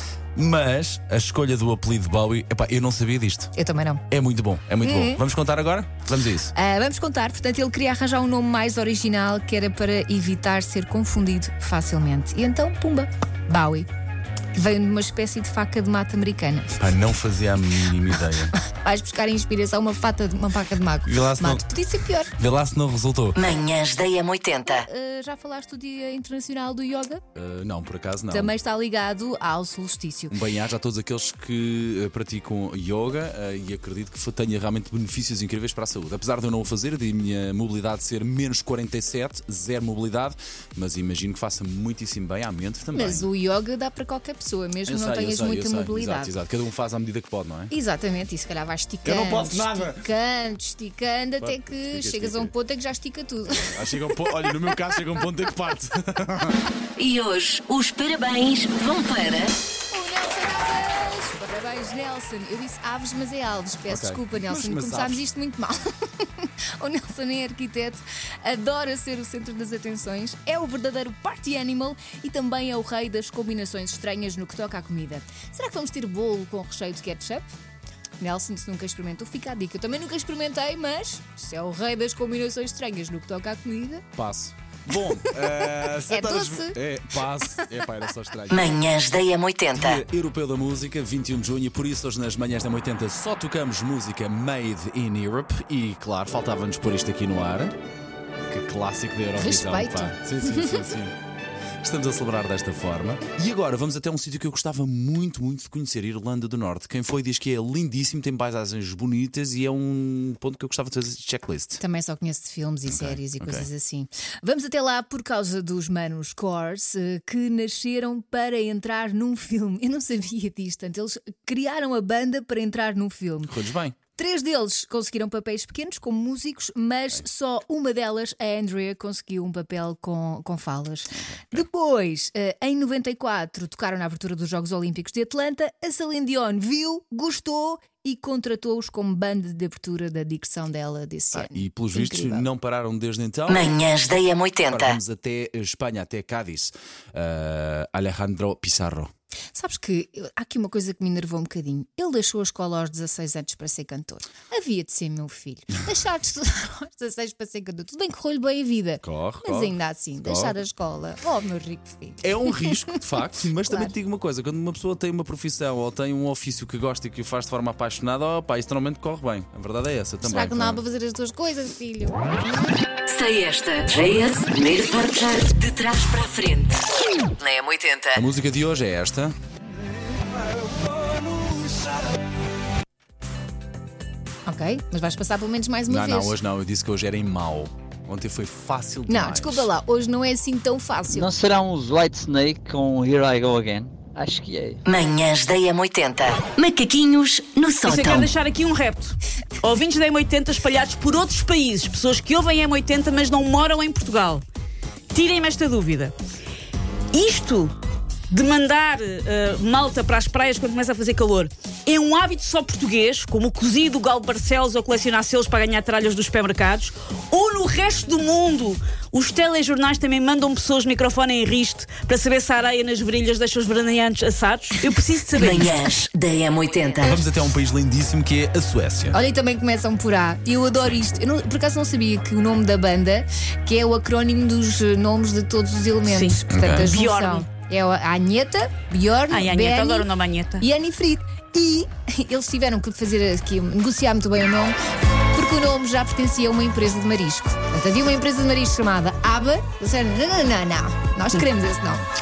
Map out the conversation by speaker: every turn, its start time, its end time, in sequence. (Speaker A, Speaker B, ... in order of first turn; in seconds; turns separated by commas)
Speaker A: 0.4-3.5, Speaker B: 3.6-4.0, Speaker A: 4.1-6.5, Speaker B: 4.8-5.2, Speaker B: 6.5-13.9, Speaker B: 14.5-16.8, Speaker A: 16.8-18.6, Speaker B: 18.6-22.3, Speaker A: 21.1-21.6, Speaker A: 22.4-23.4, Speaker C: 23.4-24.9, Speaker B: 24.6-27.2, Speaker A: 27.4-28.5, Speaker B: 28.3-30.4, Speaker A: 30.3-43.3, Speaker B: 42.9-46.3, Speaker A: 44.9-47.7, Speaker B: 47.7-54.5, Speaker A: 49.0-50.0, Speaker A: 51.4-52.5, Speaker A: 53.5-56.6, Speaker C: 57.0-59.5, Speaker B: 59.9-77.4, Speaker A: 63.9-65.2, Speaker B: 78.2-84.0, Speaker A: 84.2-88.8, Speaker B: 85.4-86.8, Speaker C: 88.5-90.0, Speaker A: 89.7-97.7, Speaker A: 98.5-101.1, Speaker B: 99.3-100.8, Speaker A: 101.8-111.8, Speaker B: 111.8-123.5, Speaker A: 112.9-113.7, Speaker A: 123.5-124.0, Speaker B: 124.1-142.5, Speaker A: 131.2-131.7, Speaker A: 141.3-143.8, Speaker C: 143.5-145.0, Speaker A: 144.7-149.1, Speaker B: 149.6-163.0, Speaker A: 159.0-160.6, Speaker A: 162.2-170.8, Speaker B: 163.6-163.9, Speaker B: 170.2-172.2, Speaker C: 173.1-176.8, Speaker C: 177.4-178.2, Speaker A: 178.2-179.3, Speaker B: 184.5-186.4, Speaker A: 185.8-189.7, Speaker B: 189.1-191.3, Speaker D: 191.2-194.8, Speaker C: 194.9-198.3, Speaker E: 197.8-204.4, Speaker E: 205.1-206.1, Speaker E: 207.1-207.7, Speaker E: 208.3-225.8, Speaker C: 225.3-227.2, Speaker A: 227.0-229.2, Speaker B: 229.1-244.8, Speaker E: 236.1-237.5, Speaker A: 236.5-237.0, Speaker E: 239.3-240.6, Speaker B: 245.3-252.0